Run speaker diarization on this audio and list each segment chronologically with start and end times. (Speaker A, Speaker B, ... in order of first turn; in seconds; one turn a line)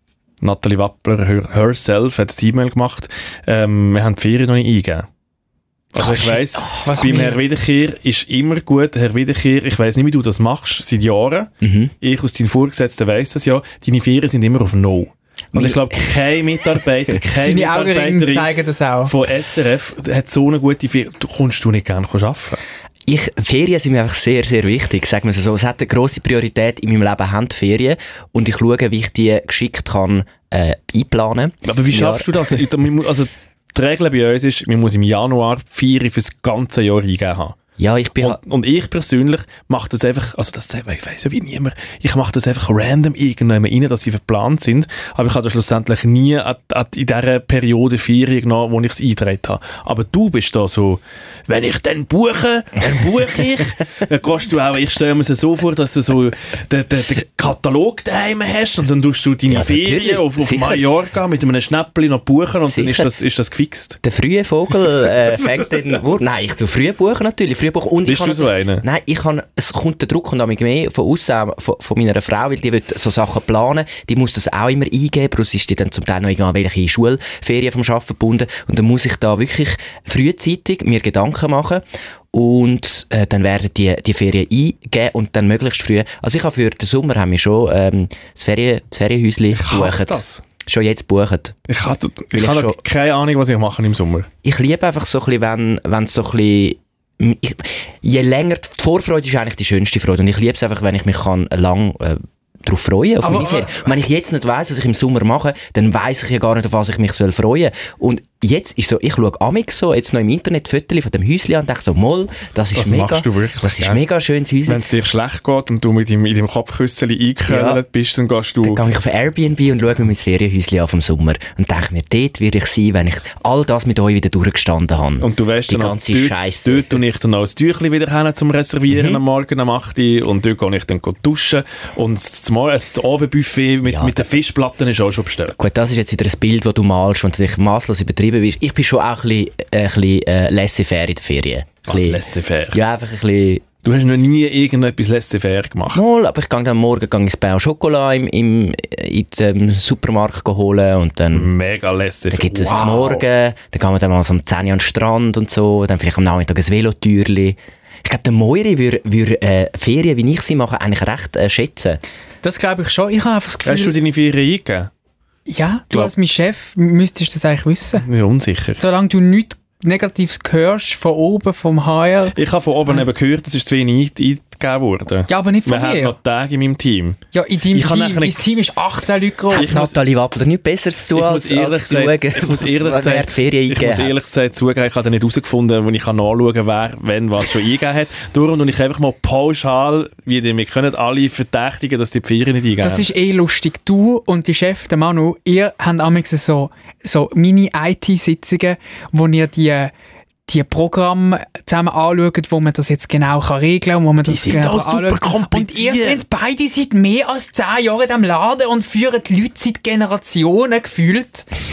Speaker A: 0.4-5.1
Speaker A: 5.9-18.5
Speaker B: 6.0-7.3
Speaker C: 6.8-7.4
Speaker B: 11.6-11.9
Speaker B: 15.5-16.1
Speaker C: 17.4-19.1
Speaker A: 19.1-22.6
Speaker B: 23.1-32.5
Speaker A: 31.7-37.5
Speaker B: 37.8-38.4
Speaker A: 38.2-64.0
Speaker B: 59.5-60.8
Speaker B: 62.7-63.1
Speaker B: 64.0-91.5
Speaker A: 68.0-68.8
Speaker A: 89.5-90.4
Speaker A: 91.7-94.3
Speaker B: 92.3-92.8
Speaker B: 94.4-114.8
Speaker C: 103.2-103.8
Speaker A: 112.7-114.0
Speaker A: 114.6-118.8
Speaker B: 117.5-117.8
Speaker B: 118.6-127.0
Speaker A: 125.2-135.6
Speaker B: 128.9-129.2
Speaker B: 133.8-134.3
Speaker B: 135.6-143.7
Speaker A: 141.9-142.8
Speaker A: 143.8-146.0
Speaker B: 145.9-151.5
Speaker A: 151.3-153.2
Speaker B: 152.3-162.0
Speaker C: 162.4-164.0
Speaker A: 163.6-164.9
Speaker C: 165.5-168.0
Speaker A: 168.0-168.8
Speaker C: 168.8-172.3
Speaker A: 172.3-177.2
Speaker C: 175.3-176.1
Speaker C: 177.3-179.7
Speaker A: 177.7-178.4
Speaker A: 179.5-180.0
Speaker B: 179.5-184.1
Speaker A: 181.1-193.1
Speaker C: 192.8-199.9
Speaker C: 200.5-211.5
Speaker A: 204.2-206.4